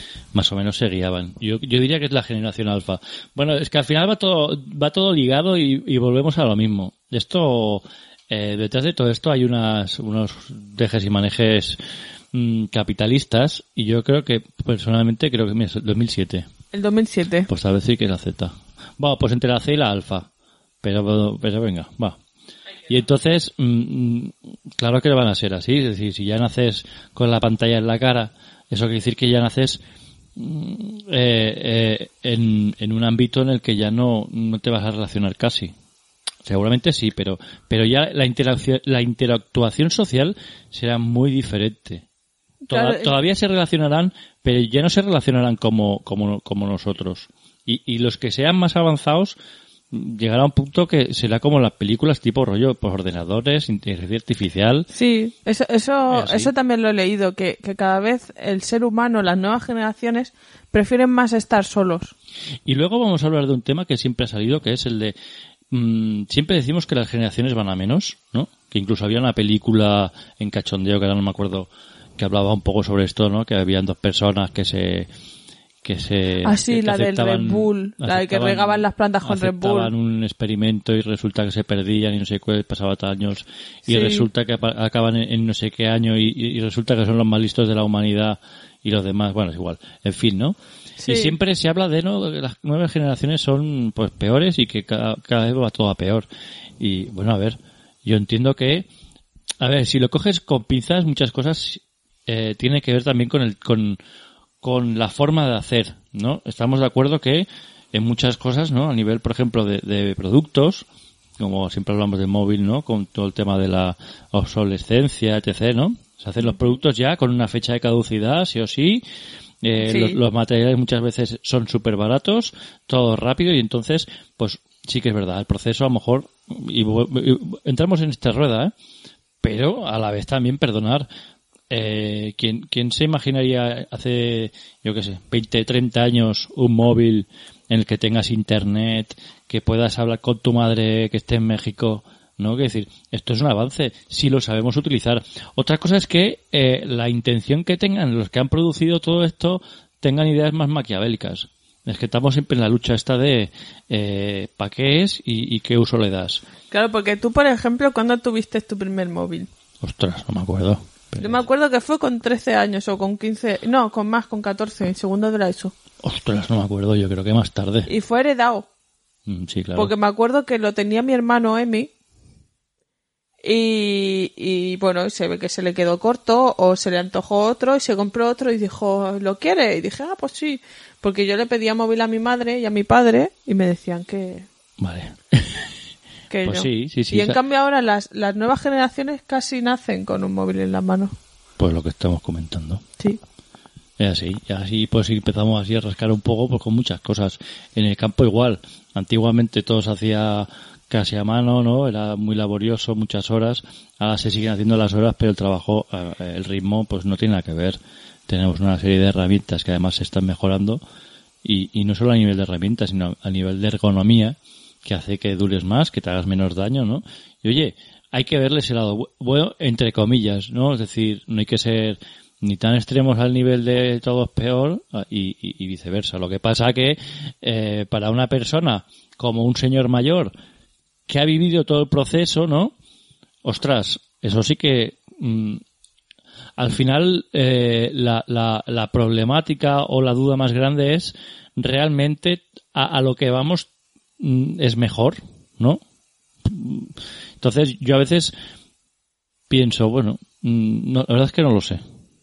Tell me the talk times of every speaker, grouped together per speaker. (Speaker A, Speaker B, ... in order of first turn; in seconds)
Speaker A: 0.3-11.8, 12.3-16.5, 17.5-20.3, 20.8-22.2, 22.9-29.8, 30.4-35.7, 36.5-42.0, 42.7-49.4, 49.9-54.9, 56.1-56.5, 62.7-65.2, 65.7-75.1, 75.8-96.3, 96.8-98.9, 99.6-104.0, 104.6-110.9, 111.4-119.0, 119.6-128.7, 129.4-131.1, 131.7-156.4, 159.8-161.4, 166.0-167.9, 169.3-169.9, 184.8-185.7, 186.4-187.4, 191.6-192.8, 194.0-210.8, 211.4-230.3, 231.1-232.7, 233.4-235.6, 236.6-245.8, 246.4-248.3, 249.5-251.8
Speaker B: 16.7-17.5, 42.7-43.1, 54.9-62.1, 76.4-79.9, 83.9-84.3, 91.0-91.4, 119.8-120.2, 156.7-159.5, 161.2-165.8, 167.9-168.7, 169.8-171.9, 173.4-184.5, 186.3-191.1